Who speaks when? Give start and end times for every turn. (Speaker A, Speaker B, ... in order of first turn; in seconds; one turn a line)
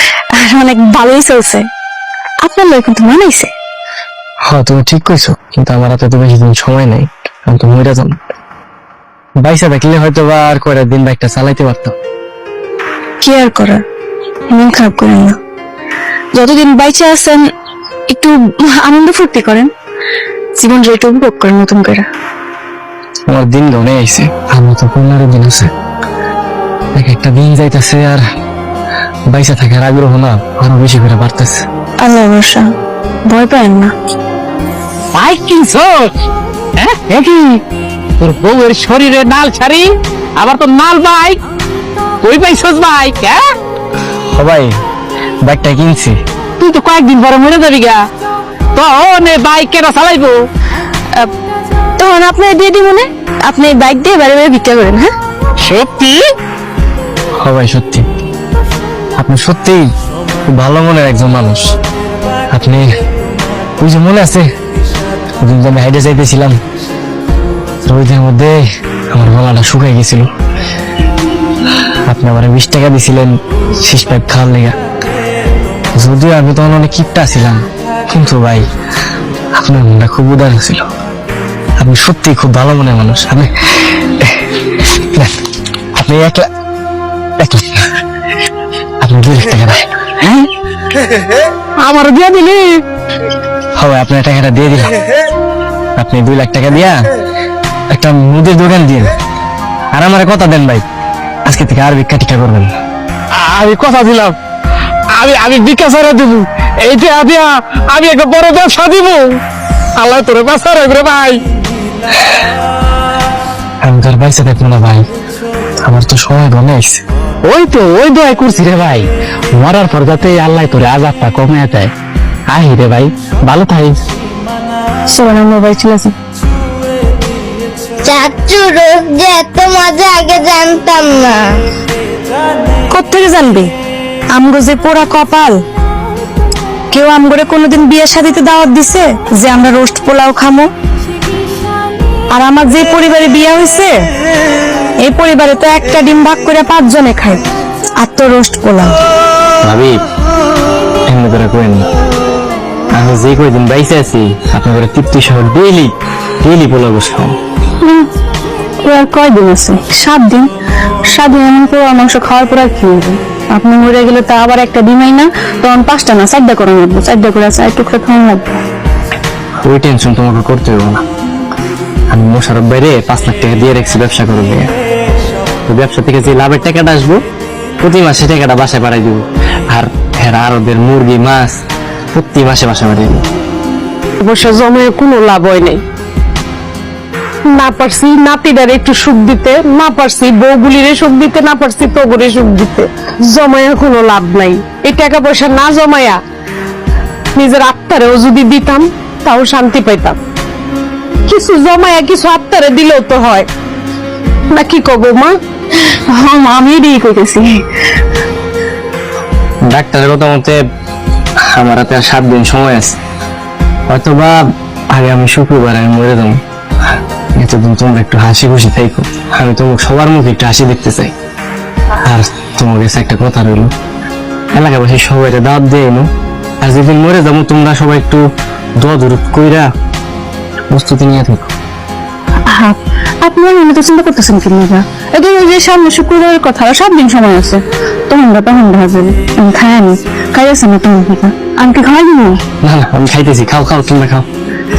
Speaker A: 0.3-1.6
Speaker A: 2.4-3.5
Speaker B: 4.4-8.2
Speaker B: 9.4-11.9
Speaker A: 13.2-13.8
Speaker A: 14.5-15.4
Speaker A: 16.3-17.4
Speaker A: 18.1-19.7
Speaker A: 20.6-22.1
Speaker B: 23.3-25.7
Speaker B: 26.9-28.2
Speaker B: 29.3-31.6
Speaker A: 32.0-32.7
Speaker A: 33.3-33.9
Speaker C: 35.1-36.1
Speaker C: 36.8-37.6
Speaker C: 38.2-41.4
Speaker C: 42.2-43.4
Speaker B: 44.3-44.7
Speaker B: 45.4-46.2
Speaker C: 46.6-48.0
Speaker C: 48.8-50.4
Speaker A: 52.0-55.1
Speaker C: 55.6-56.3
Speaker B: 57.4-58.0
Speaker B: 59.2-59.9
Speaker B: 60.5-61.7
Speaker B: 62.5-62.9
Speaker B: 63.8-64.5
Speaker B: 65.4-66.6
Speaker B: 67.8-70.3
Speaker B: 72.1-74.7
Speaker B: 75.9-78.7
Speaker B: 79.5-80.8
Speaker B: 81.8-85.3
Speaker B: 86.0-86.5
Speaker B: 87.4-87.9
Speaker B: 89.0-89.9
Speaker C: 91.8-92.6
Speaker B: 93.8-94.9
Speaker B: 96.0-97.0
Speaker B: 97.9-99.1
Speaker B: 99.9-100.8
Speaker B: 101.5-102.7
Speaker C: 103.3-104.3
Speaker C: 105.1-109.4
Speaker C: 110.0-111.4
Speaker B: 113.8-115.1
Speaker B: 115.8-117.0
Speaker C: 117.4-121.9
Speaker C: 122.5-124.0
Speaker A: 125.1-126.1
Speaker D: 128.0-131.6
Speaker A: 132.9-133.7
Speaker A: 134.3-135.5
Speaker A: 136.9-140.7
Speaker A: 142.3-143.9
Speaker A: 145.0-147.4
Speaker A: 148.0-149.0
Speaker B: 149.6-150.0
Speaker B: 151.1-151.9
Speaker B: 152.9-157.3
Speaker A: 157.8-158.1
Speaker A: 158.8-160.5
Speaker A: 161.1-168.6
Speaker B: 169.6-171.0
Speaker B: 172.1-174.7
Speaker B: 175.7-177.2
Speaker B: 177.8-181.6
Speaker B: 182.1-183.2
Speaker E: 184.2-185.8
Speaker E: 187.5-196.2
Speaker E: 197.3-200.2
Speaker E: 201.3-203.5
Speaker E: 204.5-205.3
Speaker A: 206.1-207.6
Speaker B: 209.7-210.6
Speaker B: 211.4-213.0
Speaker B: 213.9-216.4
Speaker B: 217.3-221.1
Speaker B: 222.0-223.7
Speaker B: 224.5-226.1
Speaker B: 226.6-228.2
Speaker B: 228.8-229.7
Speaker B: 230.7-231.5
Speaker A: 232.5-242.4
Speaker B: 242.6-244.2